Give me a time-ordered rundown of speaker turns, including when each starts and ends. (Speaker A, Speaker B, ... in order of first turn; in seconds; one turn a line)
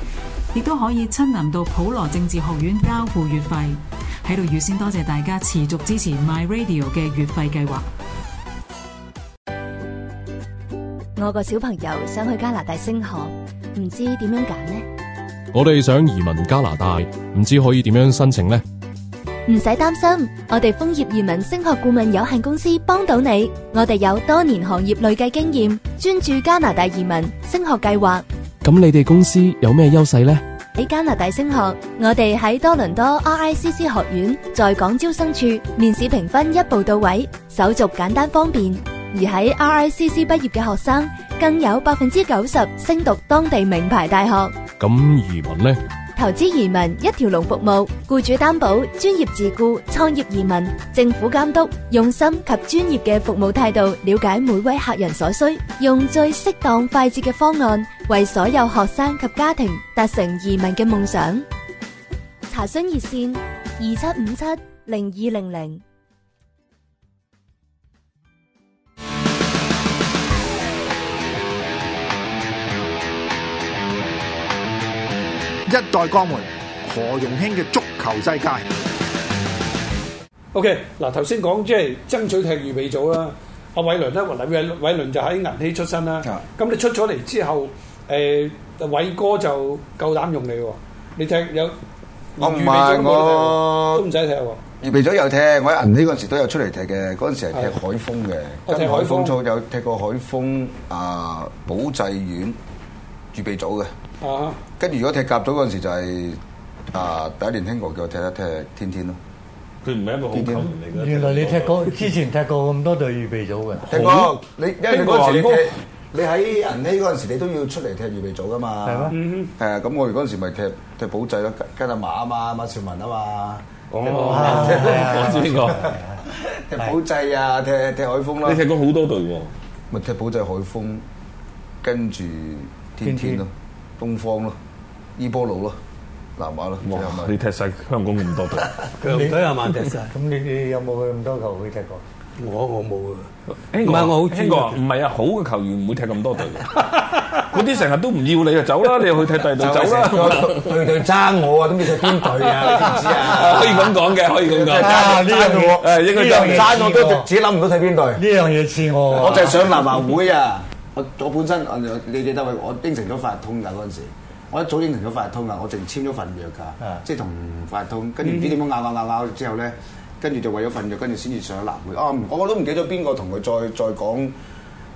Speaker A: 0.5-7.9
Speaker B: 11.2-14.8
Speaker C: 15.6-18.6
Speaker B: 19.5-28.2
Speaker C: 28.6-30.4
Speaker B: 30.8-44.6
Speaker B: 46.2-61.5
Speaker B: 62.5-65.8
Speaker D: 75.7-76.4
Speaker D: 77.0-78.5
Speaker E: 80.5-91.8
Speaker E: 92.4-94.6
Speaker F: 92.4-94.1
Speaker F: 94.8-102.6
Speaker E: 98.7-99.4
Speaker F: 103.3-103.9
Speaker E: 104.2-104.6
Speaker F: 104.7-106.4
Speaker F: 106.9-109.2
Speaker G: 109.8-112.1
Speaker F: 110.3-110.7
Speaker H: 110.9-114.0
Speaker F: 113.9-128.7
Speaker G: 113.9-114.3
Speaker G: 114.9-115.7
Speaker H: 118.8-119.2
Speaker E: 119.1-119.5
Speaker G: 123.9-125.9
Speaker E: 124.1-124.5
Speaker H: 124.1-126.2
Speaker G: 128.4-129.5
Speaker F: 129.9-131.1
Speaker F: 131.8-134.6
Speaker H: 133.0-133.4
Speaker F: 135.2-135.8
Speaker F: 136.4-137.4
Speaker G: 136.8-138.7
Speaker I: 139.0-140.1
Speaker H: 139.1-142.0
Speaker I: 142.4-143.3
Speaker G: 143.7-150.9
Speaker I: 143.8-144.8
Speaker F: 149.6-158.3
Speaker G: 151.9-156.8
Speaker H: 154.7-157.3
Speaker H: 158.1-159.7
Speaker F: 159.1-174.3
Speaker E: 168.2-168.6